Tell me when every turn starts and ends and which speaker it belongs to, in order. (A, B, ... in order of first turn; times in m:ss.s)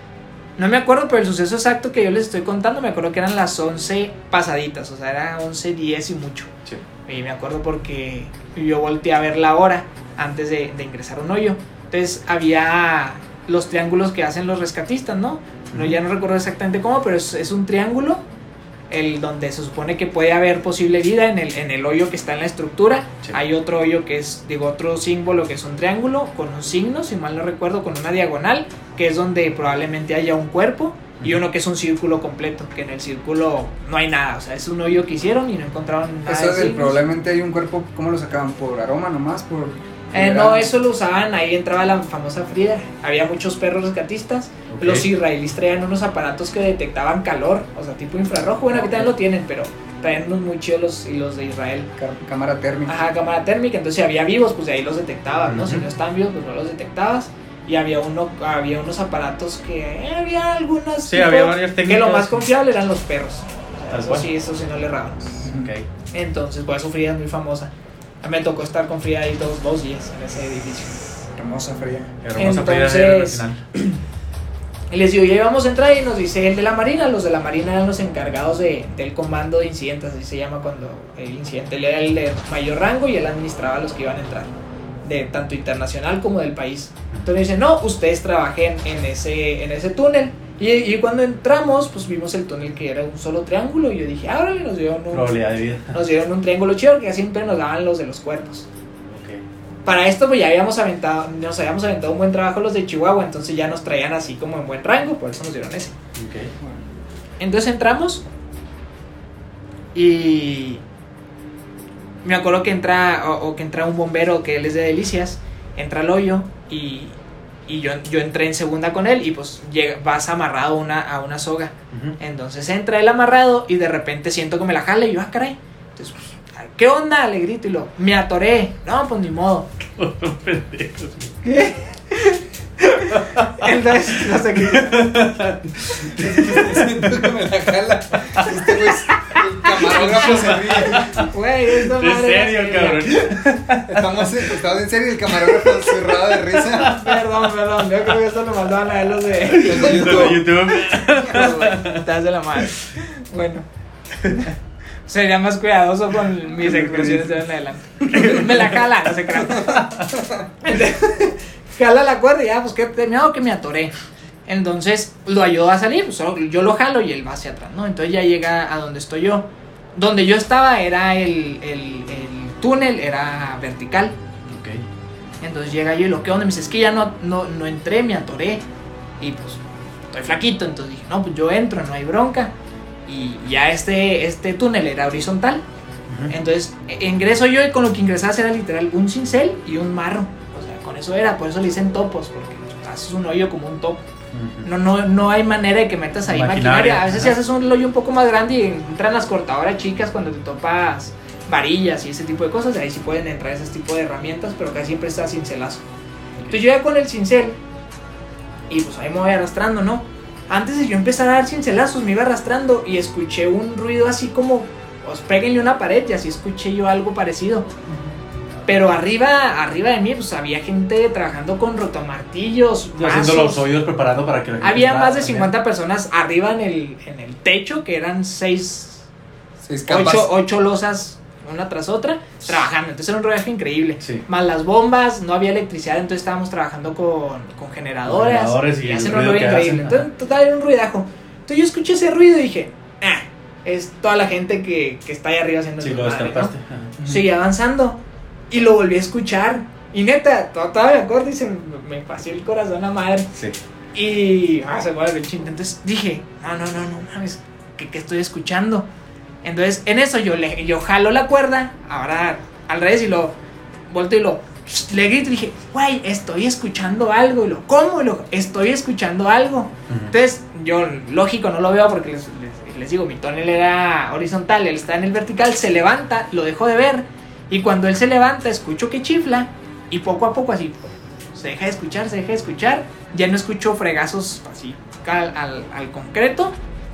0:00.6-0:06.5 A
0:07.1-0:18.2 A
0:18.9-0:37.0 A
0:36.3-0:40.7 B
0:40.1-0:51.9 A
0:44.7-0:45.1 C
0:48.7-0:49.1 B
0:52.0-0:53.0 B
0:52.9-1:05.4 A
0:55.5-0:55.9 C
1:01.1-1:02.4 C
1:03.9-1:04.3 C
1:05.4-1:05.7 B
1:05.4-1:05.9 C
1:06.1-1:07.7 A
1:08.2-1:11.0 A
1:11.3-1:12.1 B
1:12.2-1:13.6 C
1:12.4-1:13.9 A
1:14.9-1:24.5 A
1:25.0-1:35.3 A
1:35.1-1:36.0 C
1:35.9-1:38.7 A
1:39.1-1:39.4 C
1:39.8-1:45.9 A
1:46.1-1:46.5 C
1:46.6-1:46.9 B
1:47.4-1:48.2 A
1:49.9-1:50.8 A
1:52.2-1:57.2 A
1:57.7-2:09.7 A
2:01.9-2:02.2 C
2:10.0-2:11.4 C
2:11.4-2:15.2 A
2:13.2-2:13.6 C
2:14.4-2:17.2 C
2:16.0-2:21.3 B
2:18.3-2:24.4 C
2:19.9-2:23.3 A
2:23.9-2:27.1 B
2:25.4-2:27.4 C
2:26.8-2:30.3 A
2:29.4-2:32.1 C
2:29.5-2:31.8 B
2:31.8-2:33.6 A
2:35.1-2:39.9 A
2:36.8-2:37.3 C
2:40.2-2:40.4 B
2:40.6-2:43.9 A
2:44.5-2:54.1 A
2:54.4-2:54.8 C
2:55.4-2:58.6 A
2:59.2-3:02.5 A
3:03.1-3:05.6 A
3:06.1-3:06.3 C
3:06.3-3:14.0 A
3:14.3-3:14.6 C
3:14.6-3:25.8 A
3:16.3-3:17.4 C
3:26.5-3:27.6 A
3:28.7-3:37.7 A
3:38.7-3:43.6 A
3:43.0-3:45.5 C
3:44.6-3:49.1 A
3:49.6-3:50.3 B
3:49.9-4:06.5 A
3:58.1-4:00.0 C
4:05.8-4:06.9 C
4:07.0-4:08.0 A
4:08.5-4:13.3 A
4:13.9-4:18.9 A
4:19.4-4:23.4 A
4:23.9-4:46.6 A